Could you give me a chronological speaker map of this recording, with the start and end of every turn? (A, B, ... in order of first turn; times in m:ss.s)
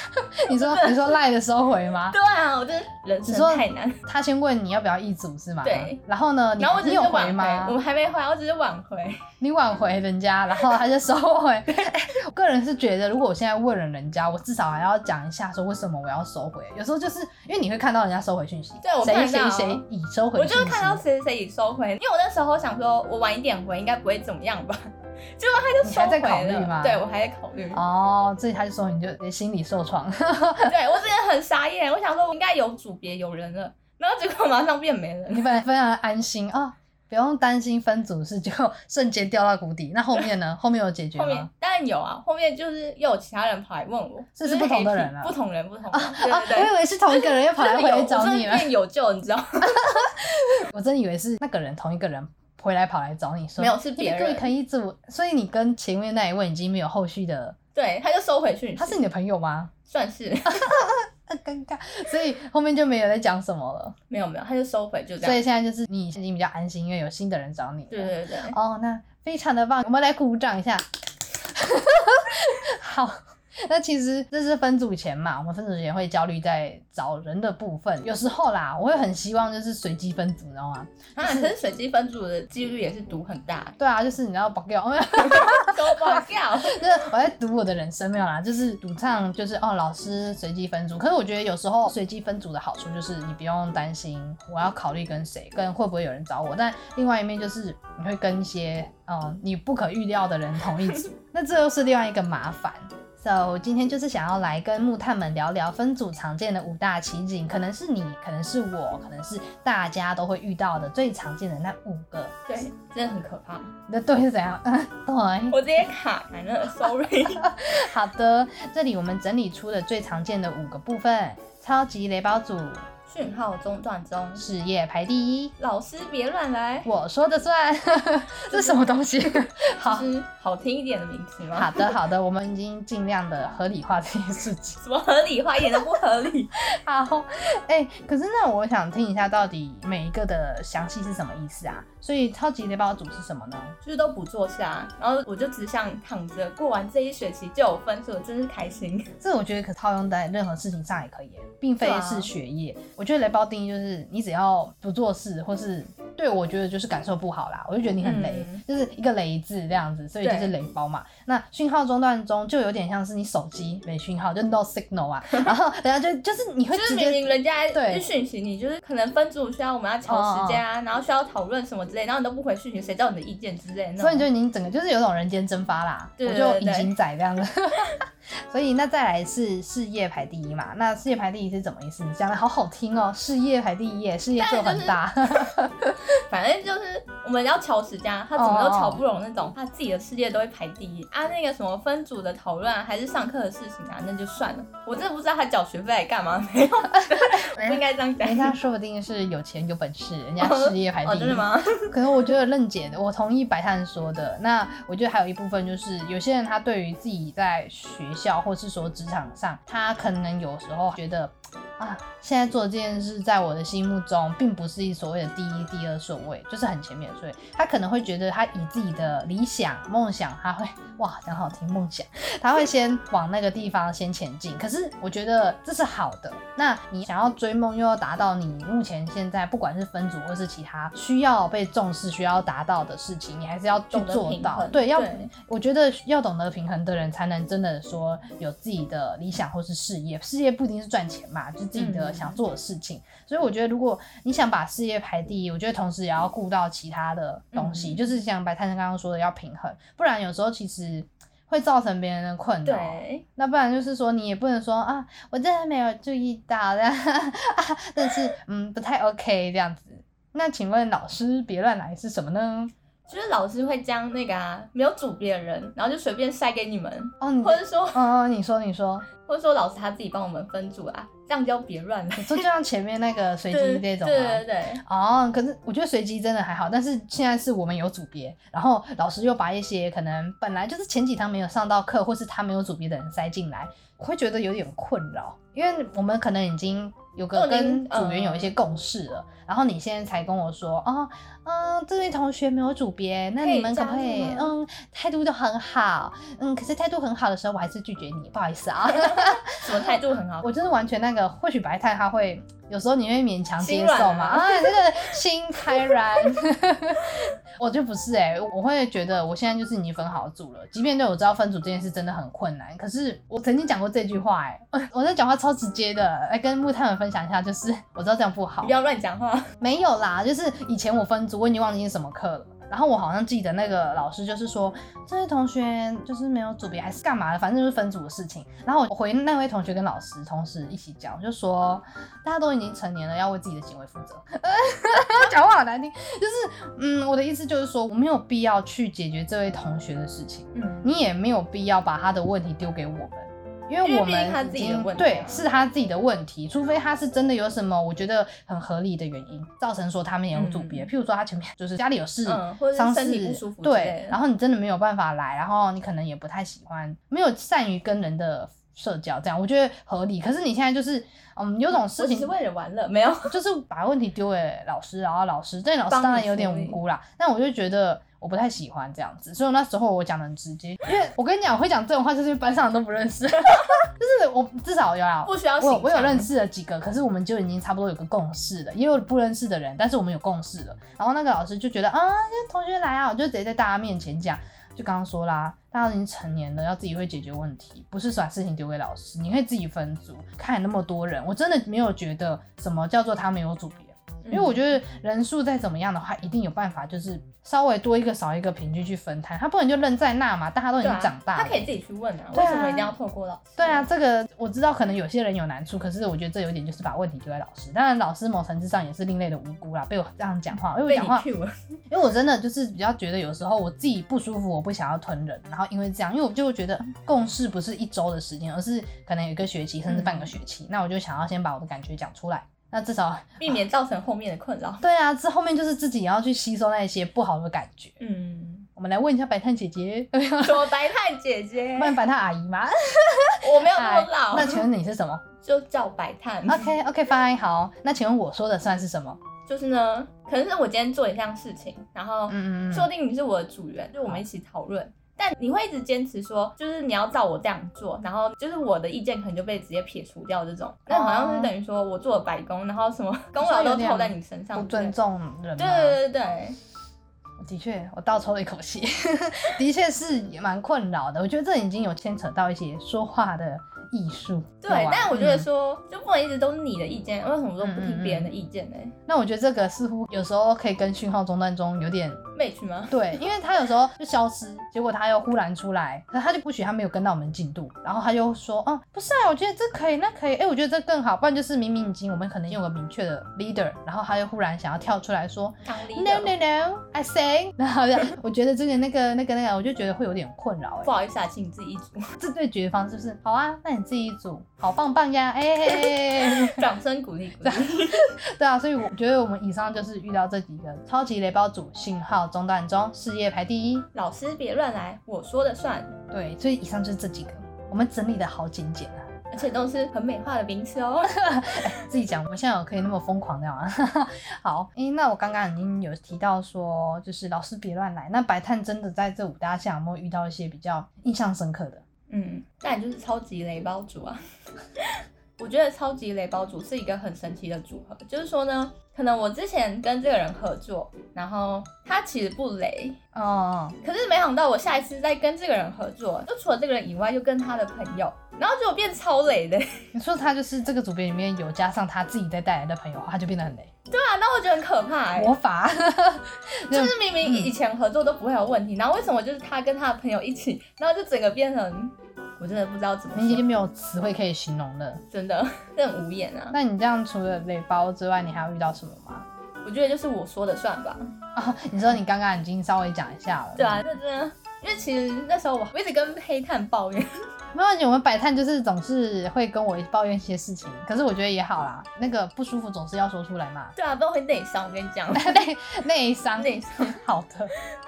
0:00.1-0:02.2 A
0:00.5-0:01.2 B
0:02.1-0:04.0 B
0:03.2-0:07.8 A
0:05.6-0:06.0 B
0:06.6-0:09.2 B
0:09.4-0:21.0 A
0:18.8-0:19.8 B
0:20.3-0:27.8 B
0:25.8-0:27.0 A
0:27.7-0:30.7 A
0:30.6-0:35.5 B
0:35.3-0:41.5 A
0:41.1-0:49.8 B
0:44.4-0:45.3 A
0:45.9-0:48.7 A
0:49.6-0:57.6 A
0:53.6-0:54.5 B
0:57.7-0:59.0 B
0:58.8-0:59.7 A
0:59.9-1:00.7 B
1:00.5-1:03.9 A
1:04.1-1:05.4 B
1:05.2-1:10.8 A
1:07.9-1:08.6 B
1:11.4-1:21.5 A
1:21.2-1:23.8 B
1:23.8-1:52.3 A
1:25.2-1:26.8 B
1:52.5-1:53.7 B
1:53.9-1:55.8 A
1:55.5-1:57.5 B
1:57.4-2:02.8 A
2:03.1-2:04.4 B
2:04.4-2:05.5 A
2:05.6-2:06.9 B
2:06.8-2:10.0 A
2:08.5-2:08.8 B
2:09.8-2:11.9 B
2:11.5-2:14.8 A
2:14.8-2:16.6 B
2:16.6-2:23.8 A
2:23.8-2:29.1 B
2:29.2-2:48.1 A
2:31.8-2:32.3 B
2:38.0-2:38.6 B
2:40.2-2:40.5 B
2:46.7-2:54.3 B
2:50.1-2:50.6 A
2:54.0-3:06.0 A
2:56.2-2:56.9 B
3:04.4-3:05.0 B
3:06.3-3:18.6 B
3:08.4-3:09.0 A
3:17.1-4:22.7 A
3:20.4-3:22.0 B
3:53.9-3:55.3 B
4:01.7-4:02.4 B
4:07.5-4:08.0 B
4:12.6-4:13.2 B
4:23.1-4:28.1 B
4:27.2-4:29.1 A
4:29.2-4:32.4 B
4:32.2-4:59.5 A
4:33.5-4:34.8 B
4:47.3-4:48.5 B
4:53.4-4:54.5 B
4:58.9-5:00.5 B
5:00.4-5:18.8 A
5:03.6-5:04.7 B
5:18.6-5:19.5 B
5:19.6-6:02.3 A
5:40.5-5:40.9 B
5:43.8-5:45.4 B
5:50.3-5:50.9 B
5:52.2-5:54.2 B
6:01.7-6:03.4 B
6:03.3-6:41.7 A
6:05.9-6:06.8 B
6:15.2-6:16.3 B
6:34.2-6:34.6 B
6:40.8-6:43.9 B
6:42.3-6:43.0 A
6:43.6-6:51.2 A
6:50.8-6:51.5 B
6:51.9-7:03.6 A
6:59.9-7:00.3 B
7:03.4-7:04.8 B
7:04.8-7:08.0 A
7:08.0-7:08.7 B
7:08.8-7:10.7 A
7:10.4-7:12.0 B
7:11.7-7:15.2 A
7:13.4-7:14.6 B
7:15.4-7:16.7 B
7:16.5-7:19.2 A
7:19.4-7:34.9 B
7:22.3-7:22.9 A
7:30.9-7:31.5 A
7:33.4-7:36.0 A
7:35.6-7:36.6 B
7:37.4-7:45.5 A
7:44.6-7:48.9 B
7:47.6-7:48.3 A
7:49.1-7:52.2 A
7:52.3-7:53.2 B
7:52.9-8:10.9 A
8:05.6-8:06.3 B
8:10.8-8:12.0 B
8:12.2-8:16.6 A
8:15.7-8:18.1 B
8:17.4-8:23.9 A
8:23.9-8:25.9 B
8:26.1-8:29.1 A
8:29.3-8:31.2 B
8:31.1-8:41.8 A
8:42.1-8:44.2 B
8:44.8-8:53.0 B
8:53.1-8:53.8 A
8:53.8-8:59.8 B
8:59.9-9:03.7 A
9:03.9-9:05.3 B
9:05.1-9:07.5 A
9:06.7-9:13.4 B
9:13.1-9:15.0 A
9:15.1-9:16.6 B
9:16.5-9:19.3 A
9:19.6-9:21.0 B
9:21.3-9:23.8 A
9:23.6-9:27.1 B
9:27.5-9:33.7 A
9:33.8-9:35.4 B
9:35.1-9:37.5 A
9:36.4-9:37.0 B